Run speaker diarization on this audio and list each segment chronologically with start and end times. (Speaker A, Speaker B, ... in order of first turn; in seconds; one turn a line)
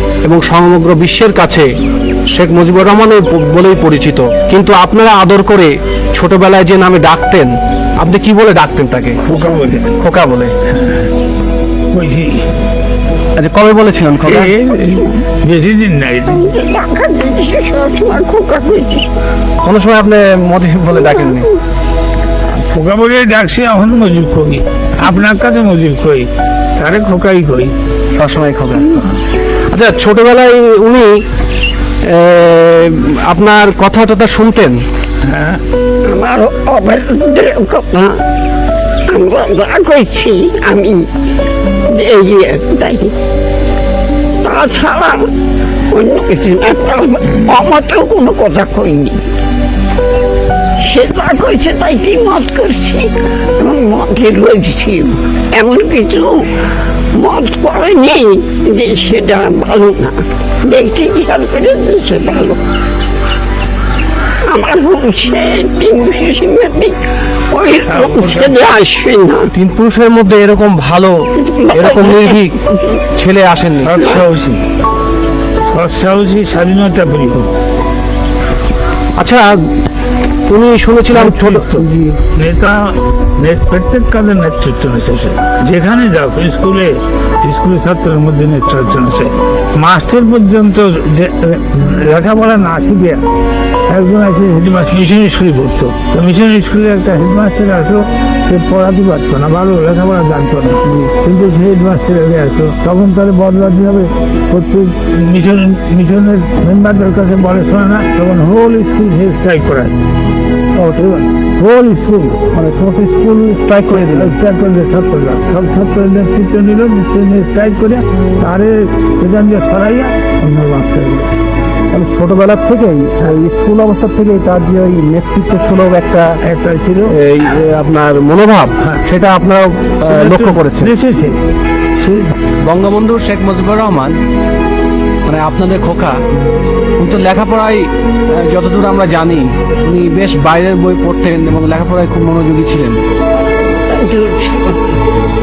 Speaker A: 0.2-1.7
Speaker A: 2.3-9.4
Speaker B: 9.3-10.0
Speaker A: 9.9-10.5
Speaker B: 10.7-11.1
Speaker B: 11.9-12.5
Speaker A: 13.4-14.6
Speaker B: 14.3-16.5
Speaker C: 16.3-19.1
Speaker A: 19.6-21.5
Speaker B: 22.5-27.8
Speaker A: 28.1-29.1
Speaker A: 29.7-31.2
Speaker A: 32.0-34.8
Speaker B: 35.2-35.6
Speaker C: 36.0-38.2
Speaker C: 39.1-41.1
Speaker C: 41.9-43.1
Speaker C: 44.4-45.3
Speaker C: 45.9-49.3
Speaker C: 50.8-56.5
Speaker C: 57.1-62.6
Speaker C: 64.4-69.5
Speaker B: 67.9-68.7
Speaker A: 69.5-74.0
Speaker C: 71.4-73.0
Speaker B: 73.8-74.6
Speaker B: 75.7-77.5
Speaker A: 79.2-79.6
Speaker A: 80.5-82.2
Speaker B: 81.1-93.2
Speaker B: 93.9-110.0
Speaker B: 110.8-111.5
Speaker A: 111.6-114.3
Speaker B: 113.9-121.3
Speaker A: 121.9-126.4
Speaker B: 126.4-127.1
Speaker A: 127.1-130.9
Speaker B: 130.1-131.4
Speaker B: 132.0-132.3
Speaker A: 132.7-134.2
Speaker A: 135.3-136.2
Speaker A: 137.0-143.0
Speaker C: 143.6-145.0